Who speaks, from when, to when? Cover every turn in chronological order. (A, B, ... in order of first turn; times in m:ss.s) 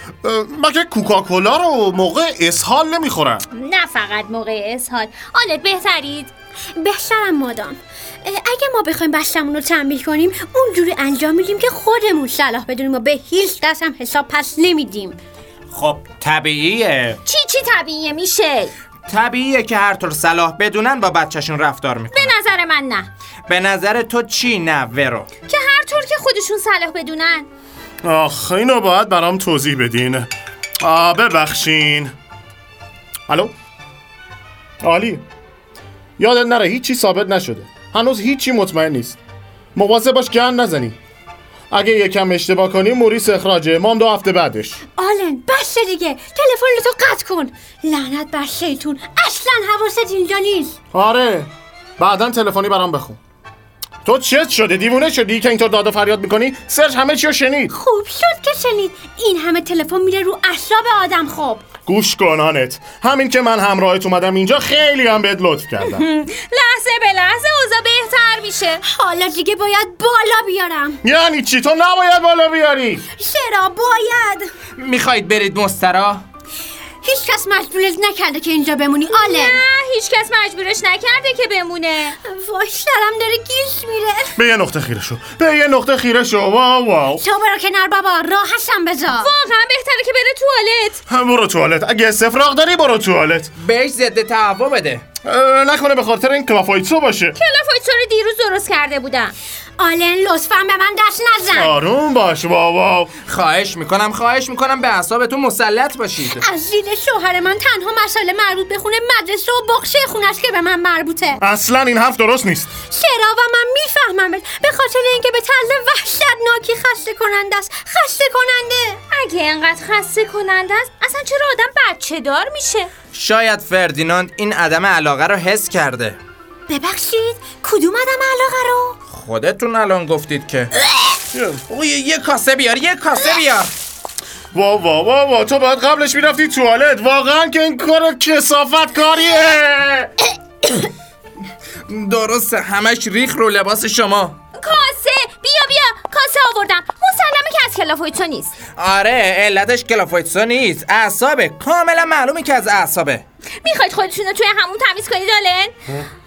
0:00.2-0:03.4 A
0:03.5-0:06.3 B
0:06.8-0:15.2 C
0:15.7-0:17.2 D
0:17.2-0:18.7 B
0:19.1-0:22.3 D
0:22.1-0:23.1 B
0:23.5-0:25.3 D
0:25.5-0:27.5 B
0:28.0-0:30.3 A
0:30.8-0:32.1 A
0:33.3-0:33.5 A
0:34.8-0:35.2 A
0:36.2-0:39.2 A
0:39.7-0:41.0 A
0:41.7-0:44.8 A
0:45.0-0:50.8 C
0:50.9-0:53.2 A
0:54.0-0:57.7 A
0:57.7-1:01.6 C
1:01.8-1:06.0 A
1:05.8-1:08.8 B
1:08.8-1:11.0 C
1:11.0-1:13.0 A
1:13.2-1:14.5 C
1:14.8-1:16.2 D
1:17.0-1:19.6 C
1:19.1-1:22.2 B
1:22.2-1:24.4 C
1:24.4-1:27.2 A
1:27.2-1:29.3 C
1:29.2-1:31.0 B
1:31.1-1:33.5 A
1:33.6-1:35.0 D
1:35.2-1:37.3 A
1:37.4-1:39.3 B
1:39.8-1:41.7 C
1:41.5-1:43.1 A
1:43.2-1:46.4 D
1:46.3-1:51.4 C
1:51.4-1:52.7 A
1:52.9-1:59.0 C
1:59.1-2:02.9 B
2:03.1-2:06.2 D
2:06.7-2:09.0 C
2:09.1-2:10.7 D
2:11.3-2:11.6 A
2:11.7-2:13.7 D
2:14.5-2:20.1 A
2:21.9-2:24.4 D
2:24.5-2:28.5 B
2:28.8-2:33.2 D
2:33.6-2:35.7 B